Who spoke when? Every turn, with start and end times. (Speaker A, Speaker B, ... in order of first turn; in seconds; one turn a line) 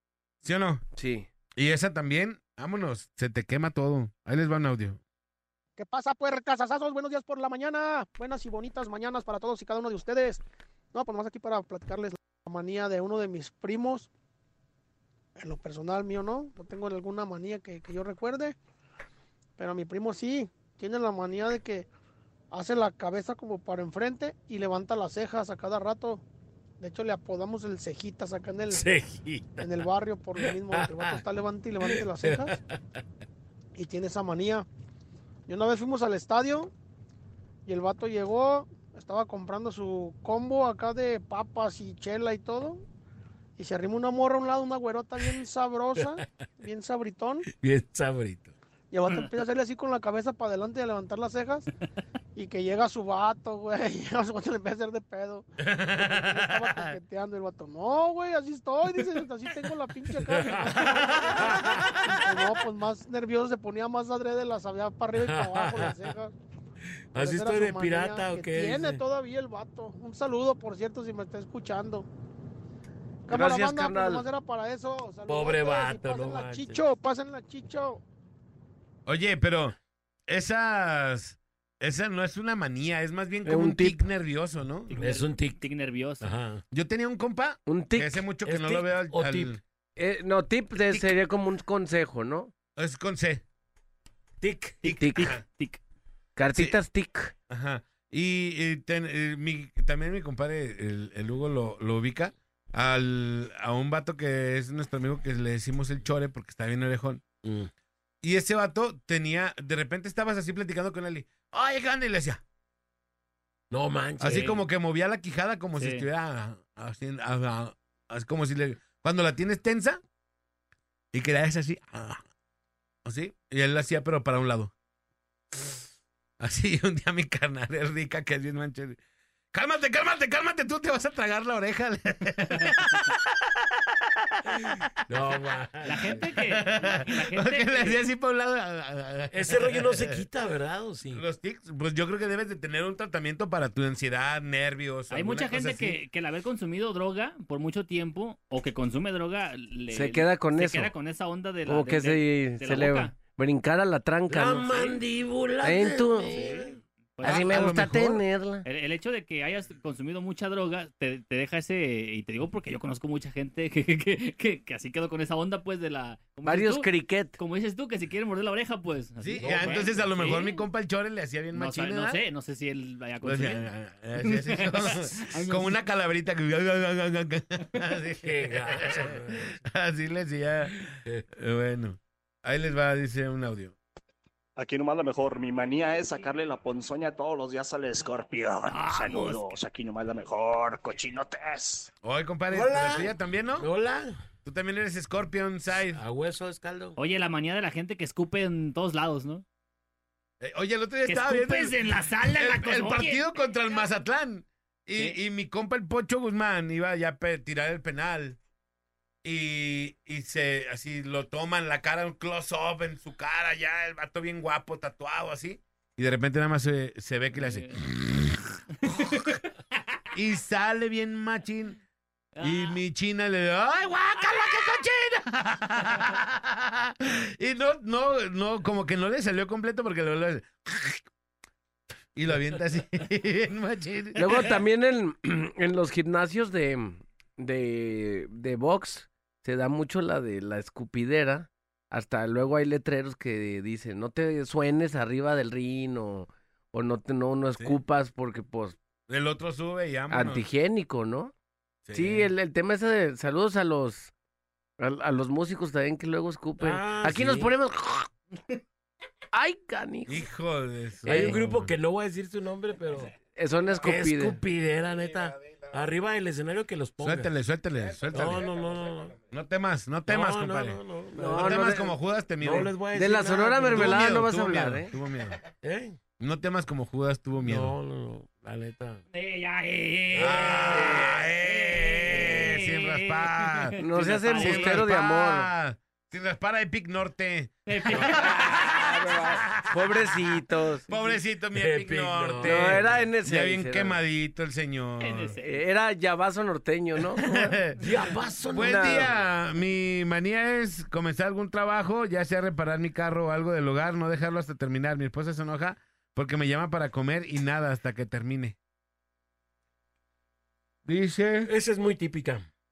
Speaker A: 0.4-0.8
Speaker B: 1.0-1.3
Speaker A: 1.6-5.0
Speaker C: 5.8-10.4
Speaker C: 10.9-14.1
Speaker C: 15.4-18.6
Speaker C: 19.6-21.9
Speaker C: 22.5-26.2
Speaker C: 26.8-28.9
Speaker D: 28.7-31.2
Speaker C: 29.6-32.6
Speaker D: 31.8-33.0
Speaker C: 33.8-34.7
Speaker C: 35.5-36.7
Speaker C: 37.7-42.9
Speaker C: 43.6-47.5
Speaker D: 46.0-46.2
Speaker D: 47.5-48.5
Speaker C: 48.9-51.7
Speaker C: 52.4-66.3
Speaker A: 55.6-57.0
Speaker D: 60.2-62.0
Speaker A: 60.8-62.2
Speaker D: 65.1-66.2
Speaker D: 67.1-69.0
Speaker C: 67.2-72.1
Speaker C: 73.3-78.0
Speaker B: 73.3-74.2
Speaker D: 75.3-76.9
Speaker A: 79.1-79.8
Speaker A: 80.3-84.9
Speaker B: 83.5-84.0
Speaker E: 84.9-86.3
Speaker D: 85.0-85.6
Speaker D: 86.2-86.6
Speaker A: 86.7-89.6
Speaker B: 87.7-88.1
Speaker D: 88.5-89.6
Speaker B: 90.0-92.5
Speaker A: 90.8-91.1
Speaker A: 92.8-93.4
Speaker D: 94.4-94.8
Speaker A: 94.8-95.4
Speaker B: 95.0-95.4
Speaker E: 95.2-95.8
Speaker B: 96.4-97.3
Speaker A: 97.5-107.2
Speaker D: 107.4-107.7
Speaker A: 108.2-112.4
Speaker D: 113.7-114.6
Speaker A: 114.2-120.0
Speaker E: 115.8-116.1
Speaker A: 121.1-122.2
Speaker A: 123.0-124.7
Speaker A: 126.4-129.0
Speaker A: 129.5-135.4
Speaker D: 135.1-136.2
Speaker E: 135.8-138.0
Speaker A: 136.0-140.2
Speaker D: 139.3-141.2
Speaker A: 141.1-146.0
Speaker E: 145.1-153.1
Speaker B: 149.9-150.9
Speaker B: 151.7-155.0
Speaker D: 154.3-156.8
Speaker B: 155.6-156.4
Speaker E: 156.3-157.7
Speaker A: 157.2-158.2
Speaker B: 157.2-158.7
Speaker E: 158.7-166.9
Speaker B: 166.4-167.4
Speaker E: 167.4-170.6
Speaker A: 169.2-172.2
Speaker D: 169.4-170.1
Speaker E: 171.5-175.8
Speaker A: 173.2-183.8
Speaker D: 178.2-179.5
Speaker F: 184.6-191.9
Speaker E: 188.7-189.5
Speaker A: 192.0-193.7
Speaker D: 192.5-194.2
Speaker A: 194.4-196.0
Speaker D: 195.9-197.0
Speaker E: 197.0-199.4
Speaker A: 200.4-208.4
Speaker E: 201.1-203.3
Speaker A: 209.2-218.4
Speaker E: 217.3-217.8
Speaker E: 218.8-219.3
Speaker A: 220.1-221.8
Speaker E: 222.4-222.8
Speaker A: 222.4-231.1
Speaker E: 224.2-224.8
Speaker A: 232.1-234.6
Speaker B: 234.2-248.8
Speaker A: 249.1-250.4
Speaker B: 250.1-251.3
Speaker A: 251.8-252.3
Speaker B: 251.9-254.1
Speaker B: 254.8-258.1
Speaker D: 256.6-257.5
Speaker B: 259.3-260.2
Speaker A: 260.1-261.7
Speaker D: 261.1-263.1
Speaker B: 261.1-261.3
Speaker B: 263.4-264.4
Speaker D: 263.8-267.3
Speaker A: 265.2-265.7
Speaker A: 267.0-272.7
Speaker D: 268.1-269.2
Speaker D: 270.1-271.9
Speaker B: 271.2-271.9
Speaker D: 272.4-274.2
Speaker B: 273.0-274.9
Speaker A: 273.7-275.4
Speaker D: 275.6-276.0
Speaker A: 276.2-277.8
Speaker D: 277.4-279.0
Speaker E: 279.1-284.8
Speaker D: 280.1-281.0
Speaker A: 280.2-283.8
Speaker B: 283.8-285.5
Speaker A: 284.4-288.4
Speaker E: 287.7-288.8
Speaker D: 287.9-288.2
Speaker B: 288.2-290.9
Speaker A: 290.9-295.4
Speaker D: 291.5-293.0
Speaker B: 292.4-294.0
Speaker E: 295.0-295.6
Speaker B: 295.4-297.6
Speaker A: 297.2-297.9
Speaker D: 297.8-299.2
Speaker A: 298.5-308.6
Speaker B: 298.6-299.1
Speaker A: 310.9-311.5
Speaker D: 311.5-312.5